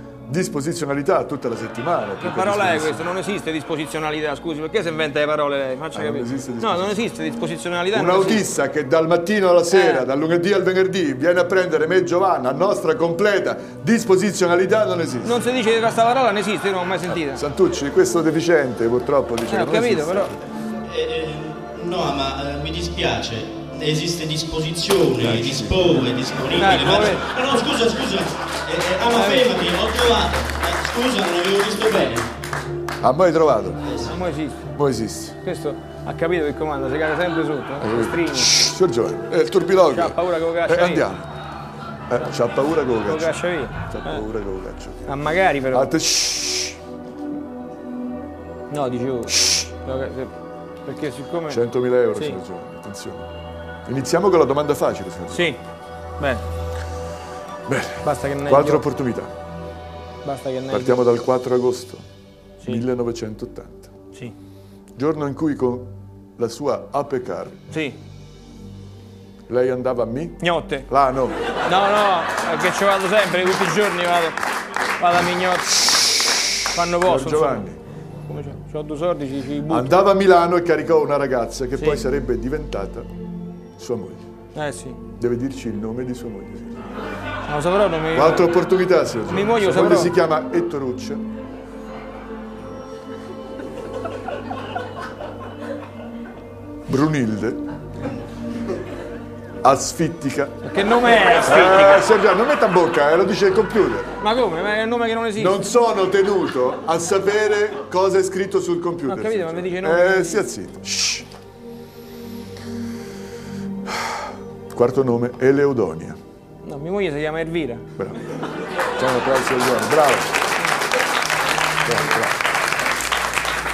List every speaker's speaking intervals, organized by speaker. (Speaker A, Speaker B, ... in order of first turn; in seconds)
Speaker A: 0.3-3.0, 5.9-7.0, 7.9-15.4, 17.1-20.4, 25.2-26.0, 33.0-34.0, 34.7-35.4, 37.8-41.2, 42.1-45.1, 45.7-46.8, 51.5-53.3, 53.8-55.5, 57.6-59.3, 60.7-62.0, 62.6-63.9, 64.9-67.6, 69.5-71.4, 77.0-77.8, 79.7-83.1, 83.8-84.2, 85.2-86.8, 88.1-91.2, 96.9-97.6, 99.6-100.6, 101.1-104.1, 105.4-111.2, 113.9-114.1, 114.7-116.2, 118.0-118.2, 119.0-120.3, 121.8-122.4
Speaker B: 2.2-8.4, 9.7-10.0, 15.2-17.4, 19.5-20.3, 26.6-27.2, 29.0-29.6, 34.0-34.6, 35.4-38.5, 39.9-41.0, 43.0-44.2, 45.0-45.9, 48.7-50.3, 50.8-51.6, 55.3-55.6, 56.2-56.4, 58.0-58.8, 60.2-61.0, 67.7-68.0, 70.4-70.9, 71.6-74.4, 75.0-75.7, 76.7-77.7, 78.3-79.9, 84.5-85.0, 87.5-88.5, 89.3-90.1, 100.6-102.1, 104.2-105.6, 109.1-110.5, 116.6-117.9
Speaker C: 20.9-32.3, 33.8-34.2